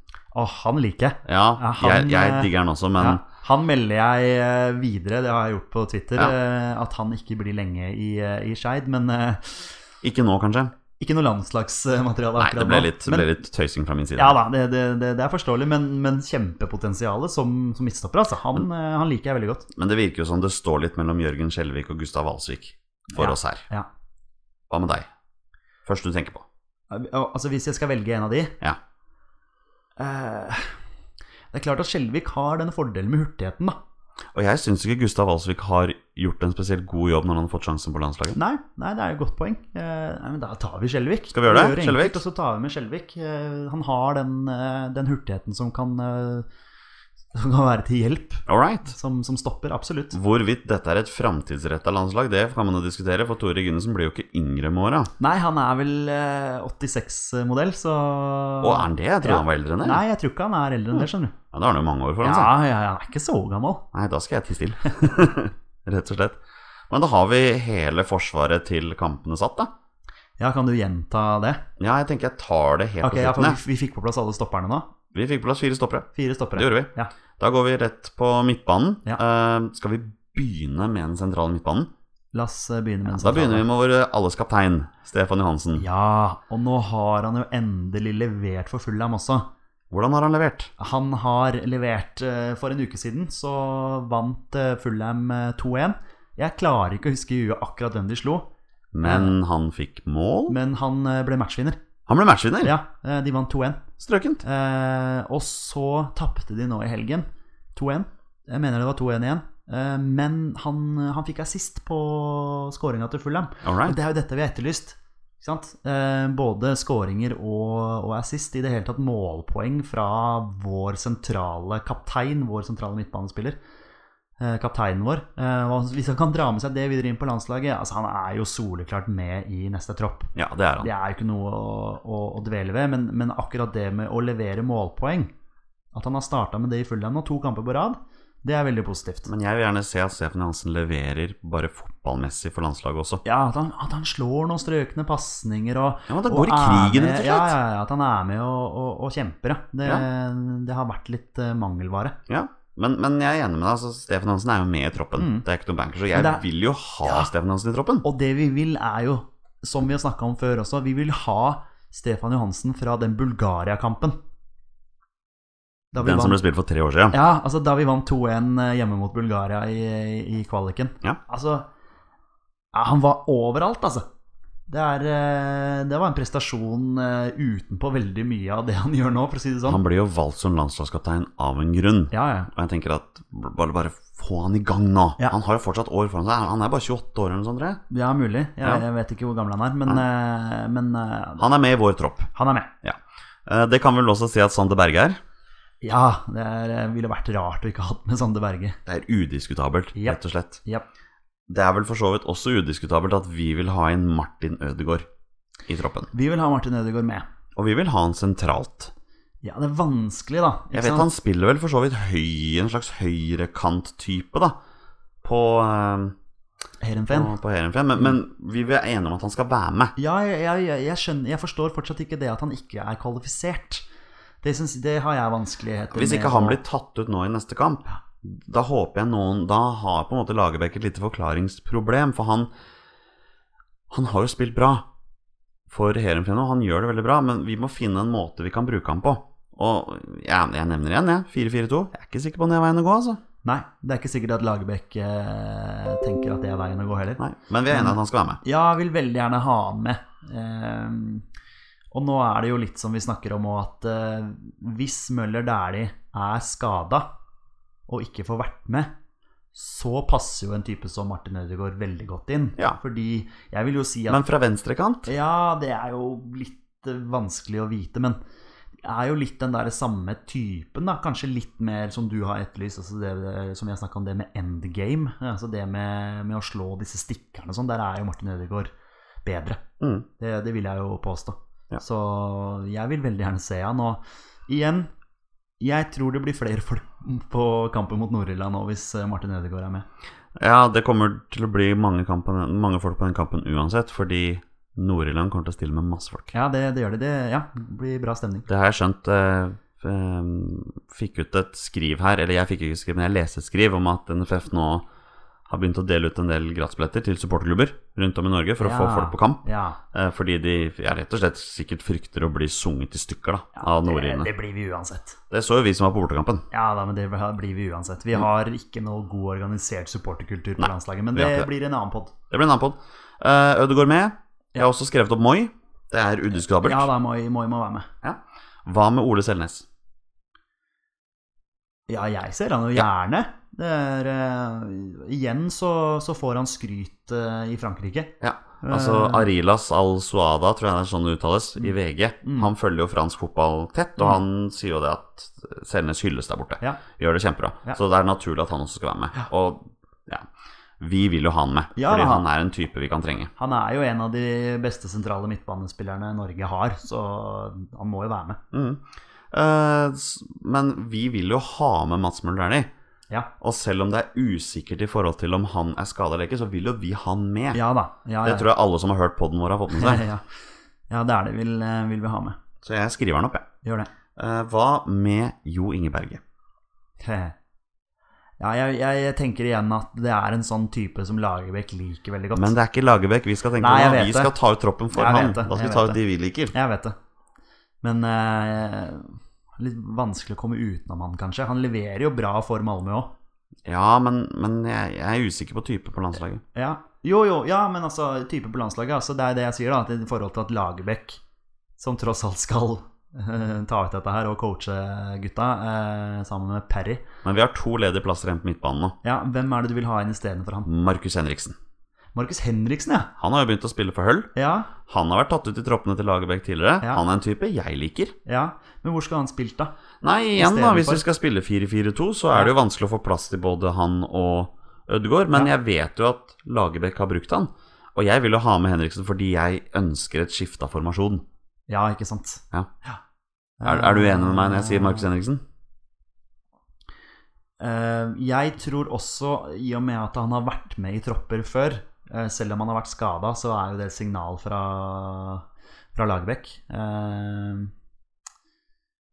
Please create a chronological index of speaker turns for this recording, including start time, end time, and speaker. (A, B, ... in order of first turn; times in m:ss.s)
0:00.3-0:09.7 A
0:01.2-0:03.2 B
0:10.0-0:10.7 B
0:11.0-0:13.3 A
0:12.4-0:14.4 B
0:14.2-0:19.7 A
0:19.7-0:23.6 B
0:23.1-0:23.9 A
0:24.7-0:25.1 B
0:25.8-0:26.4 B
0:26.9-0:28.6 A
0:30.0-0:30.8 A
0:31.5-0:33.8 A
0:34.3-0:38.4 B
0:38.3-0:46.5 A
0:41.3-0:42.2 B
0:47.3-0:50.2 A
0:48.5-0:48.9 B
0:50.1-0:55.1 B
0:55.2-1:01.3 A
0:58.6-1:00.0 B
1:01.5-1:02.5 B
1:02.2-1:03.9 A
1:03.9-1:09.7 B
1:10.4-1:11.6 A
1:11.8-1:13.6 B
1:13.0-1:14.9 A
1:15.1-1:21.9 B
1:16.1-1:17.1 A
1:22.3-1:23.6 A
1:23.1-1:25.8 B
1:25.8-1:29.5 A
1:29.9-1:30.7 B
1:30.8-1:38.5 A
1:38.9-1:40.6 B
1:39.0-1:39.3 A
1:40.5-1:41.8 A
1:42.1-1:42.7 B
1:42.6-1:43.9 A
1:44.0-1:44.4 B
1:44.4-2:03.6 A
1:53.6-1:54.0 B
2:04.4-2:15.3 A
2:10.3-2:10.9 B
2:15.9-2:19.3 A
2:19.2-2:23.2 B
2:23.2-2:32.2 A
2:26.1-2:27.6 B
2:32.3-2:38.0 B
2:35.2-2:35.4 A
2:36.1-2:36.4 A
2:37.0-2:37.3 A
2:38.0-2:44.2 A
2:45.9-2:46.4 A
2:46.0-2:47.2 B
2:47.1-2:51.7 A
2:52.7-2:54.0 A
2:54.7-2:59.8 A
2:59.6-3:07.8 B
3:02.1-3:02.5 A
3:07.9-3:11.4 A
3:11.4-3:12.3 B
3:12.3-3:12.7 A
3:12.8-3:15.2 B
3:15.8-3:18.8 A
3:18.8-3:20.6 B
3:19.9-3:20.8 A
3:21.5-3:25.1 B
3:25.7-3:26.1 B
3:26.1-3:27.3 A
3:27.5-3:28.9 B
3:29.4-3:31.1 A
3:30.7-3:34.6 B
3:35.2-3:36.2 B
3:36.8-3:37.3 A
3:37.1-3:39.9 B
3:40.0-3:43.8 A
3:44.4-3:46.6 A
3:45.9-3:52.5 B
3:53.9-3:54.8 B
3:55.7-4:03.2 B
4:03.4-4:11.2 A
4:07.2-4:08.4 B
4:11.9-4:17.1 A
4:17.9-4:18.9 A
4:19.5-4:24.2 A
4:24.1-4:25.1 B
4:25.0-4:28.2 A
4:28.8-4:38.7 A
4:39.2-4:39.6 A
4:39.8-4:40.0 B
4:40.2-4:44.9 A
4:45.6-4:49.8 A
4:50.4-4:56.3 B
4:56.3-4:58.5 A
4:58.5-5:04.8 B
5:05.5-5:14.3 B
5:08.6-5:09.8 A
5:13.6-5:15.2 A
5:15.3-5:16.5 B
5:16.5-5:22.1 A
5:20.6-5:21.5 B
5:22.3-5:26.9 B
5:26.6-5:27.9 A
5:28.0-5:29.6 B
5:31.9-5:39.3 A
5:38.2-5:50.3 B
5:42.2-5:42.5 A
5:50.8-5:53.3 B
5:51.7-5:52.2 A
5:53.4-5:58.4 A
5:58.5-6:02.7 B
6:03.4-6:07.6 B
6:07.5-6:08.5 A
6:08.2-6:10.0 B
6:09.7-6:10.2 A
6:10.9-6:12.4 A
6:12.6-6:13.4 B
6:13.6-6:13.9 A
6:14.2-6:16.2 B
6:17.0-6:17.3 A
6:18.4-6:22.6 A
6:22.3-6:26.5 B
6:23.6-6:24.3 A
6:24.9-6:26.0 A
6:26.5-6:27.0 A
6:27.8-6:33.1 A
6:33.6-6:36.4 B
6:36.5-6:41.2 A
6:41.8-6:47.1 A
6:47.2-6:49.0 B
6:49.0-6:50.7 A
6:50.6-6:51.6 B
6:52.1-6:53.1 A
6:53.2-6:58.1 B
6:54.3-6:54.7 A
6:58.2-6:59.7 A
7:00.0-7:11.2 B
7:00.4-7:01.0 A
7:11.7-7:13.0 A
7:13.6-7:15.1 A
7:13.6-7:15.4 B
7:17.6-7:25.4 A
7:25.9-7:27.7 A